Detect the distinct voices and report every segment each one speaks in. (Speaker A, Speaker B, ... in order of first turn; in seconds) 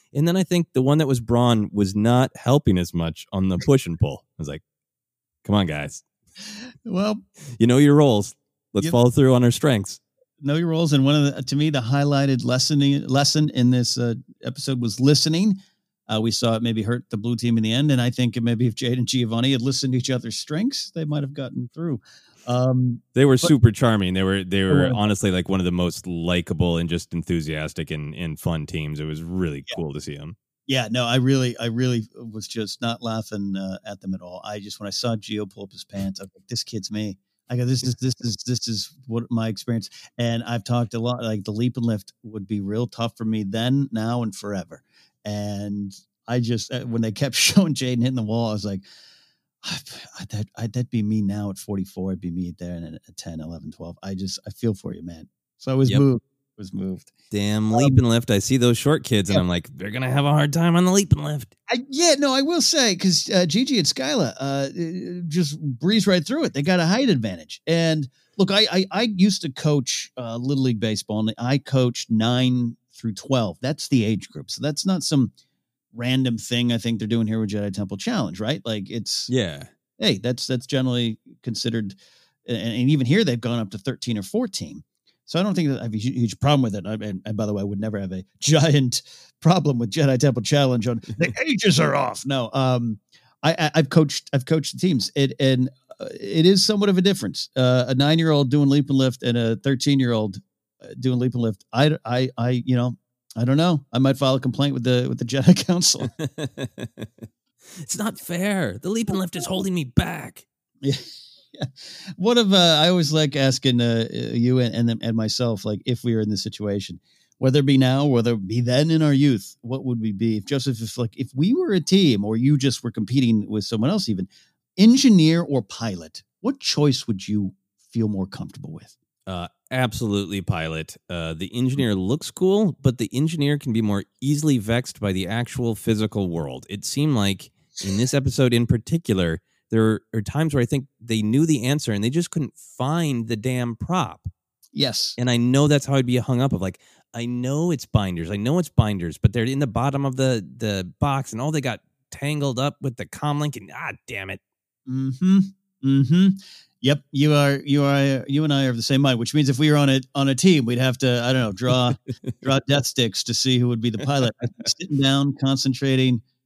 Speaker A: 0.1-4.6, 5.4-6.0, 7.6-10.0, 23.1-30.4, 57.3-61.5, 79.3-79.7, 106.1-110.5, 129.3-144.3, 145.2-154.4
Speaker B: 6.9-7.2, 10.4-23.5, 24.7-25.0, 30.7-48.9, 49.6-57.1, 61.7-75.3, 75.9-79.3, 80.0-106.1, 110.8-128.9, 144.8-145.2, 154.9-166.2